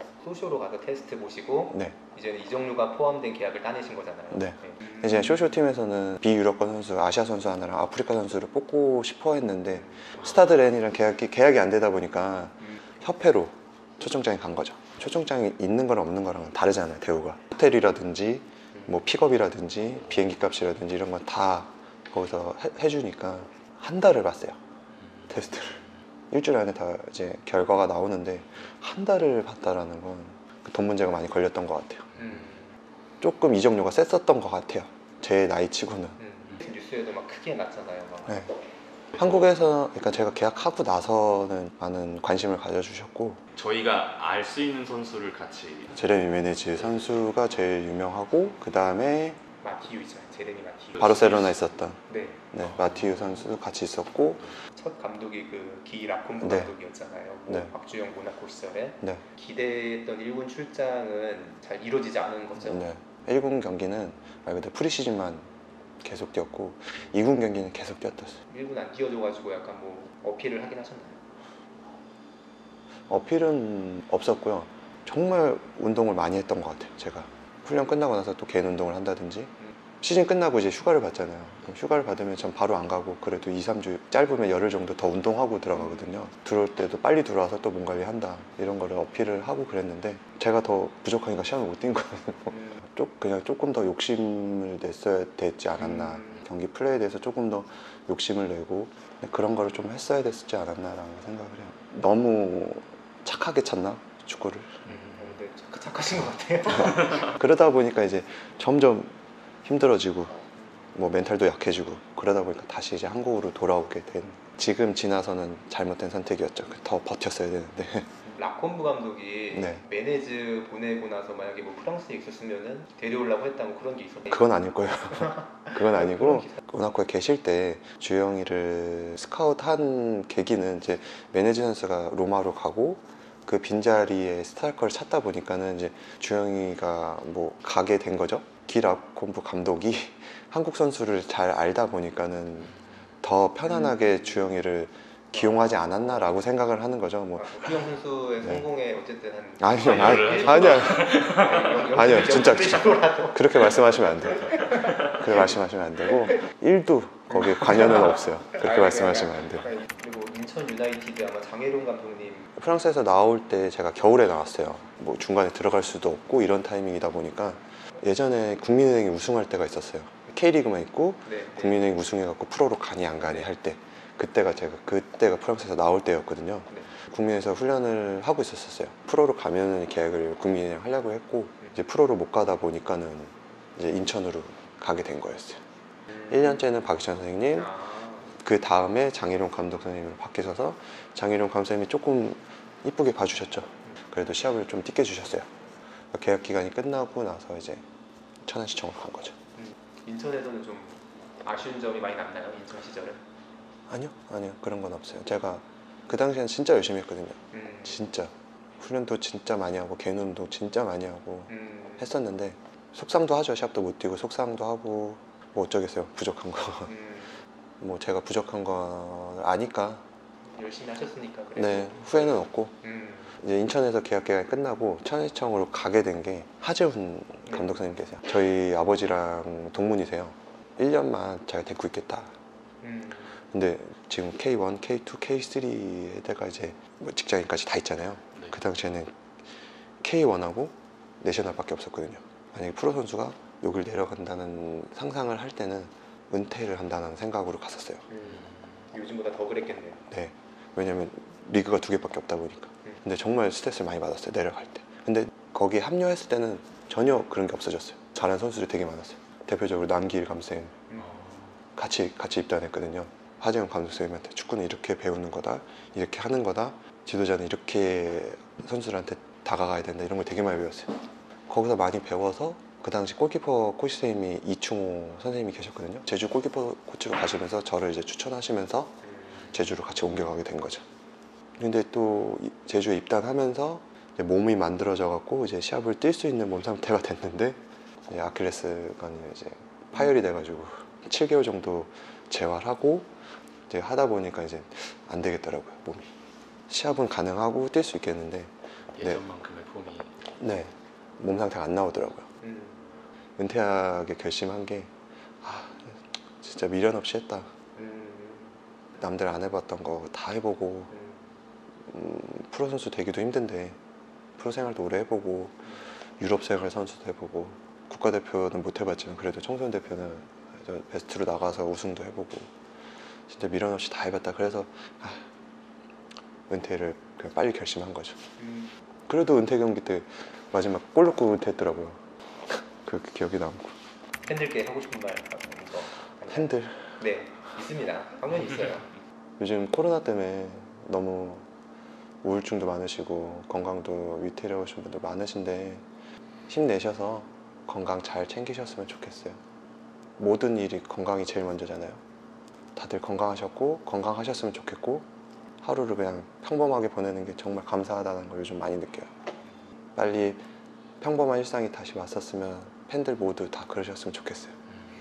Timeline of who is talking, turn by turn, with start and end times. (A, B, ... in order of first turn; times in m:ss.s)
0:00.2-0:05.5 A
0:01.7-0:02.0 B
0:04.3-0:24.6 B
0:25.0-0:25.3 C
0:25.3-0:25.8 B
0:26.3-0:32.2 B
0:32.2-0:32.8 A
0:33.2-0:36.2 B
0:36.2-0:38.4 A
0:39.1-0:43.4 B
0:43.5-0:46.0 C
0:45.9-0:49.4 B
0:49.6-0:51.5 A
0:51.0-0:52.0 B
0:52.1-0:52.4 A
0:52.5-0:54.6 B
0:52.8-0:53.1 C
0:54.7-1:02.8 A
0:56.4-0:56.7 B
0:57.5-0:57.7 B
1:02.6-1:05.5 B
1:06.0-1:08.4 B
1:08.5-1:11.2 A
1:13.1-1:44.9 B
1:25.7-1:26.0 A
1:32.5-1:32.8 A
1:35.8-1:36.4 A
1:44.9-1:45.4 C
1:45.1-1:47.3 A
1:46.8-1:50.4 B
1:50.9-1:58.1 B
1:58.2-2:06.6 A
1:59.5-1:59.8 B
2:04.3-2:27.8 B
2:23.6-2:24.6 A
2:25.3-2:26.4 A
2:27.4-2:35.5 A
2:28.4-2:28.6 B
2:29.6-2:39.7 B
2:29.8-2:31.8 C
2:37.3-2:42.5 A
2:42.6-3:05.6 B
2:51.2-2:51.9 A
3:06.3-3:07.7 B
3:07.5-3:08.3 A
3:08.3-3:15.5 B
3:16.1-3:17.8 B
3:18.4-3:19.4 B
3:19.6-3:23.2 A
3:23.9-3:36.9 B
3:27.5-3:28.1 A
3:31.5-3:32.1 A
3:36.9-3:37.4 A
3:37.8-3:40.0 B
3:40.5-3:43.4 A
3:41.6-3:42.7 B
3:43.4-3:52.3 B
3:52.8-3:53.4 A
3:53.5-3:59.2 B
4:00.0-4:08.0 B
4:08.1-4:10.0 A
4:08.2-4:08.8 C
4:10.1-4:20.9 B
4:21.0-4:21.6 C
4:21.8-4:40.8 B
4:39.0-4:39.4 A
4:41.6-4:53.1 B
4:53.7-4:56.1 B
4:56.7-4:59.2 B
4:59.0-5:00.2 C
5:00.4-5:02.3 B
5:02.4-5:02.8 A
5:03.4-5:07.5 B
5:07.8-5:08.5 A
5:09.0-5:10.9 B
5:10.9-5:11.2 A
5:11.9-5:13.8 B
5:14.4-5:15.6 B
5:16.2-5:22.5 B
5:23.3-5:25.3 B
5:26.5-5:28.2 B
5:28.4-5:28.7 A
5:29.1-5:33.8 B
5:34.2-5:38.9 A
5:36.3-5:37.0 B
5:39.4-5:41.5 B
5:42.2-5:45.8 B
5:46.5-5:49.4 B
5:50.2-5:52.0 B
5:52.8-5:55.1 B
5:55.6-5:59.1 B
6:00.0-6:00.4 B
6:01.0-6:04.6 B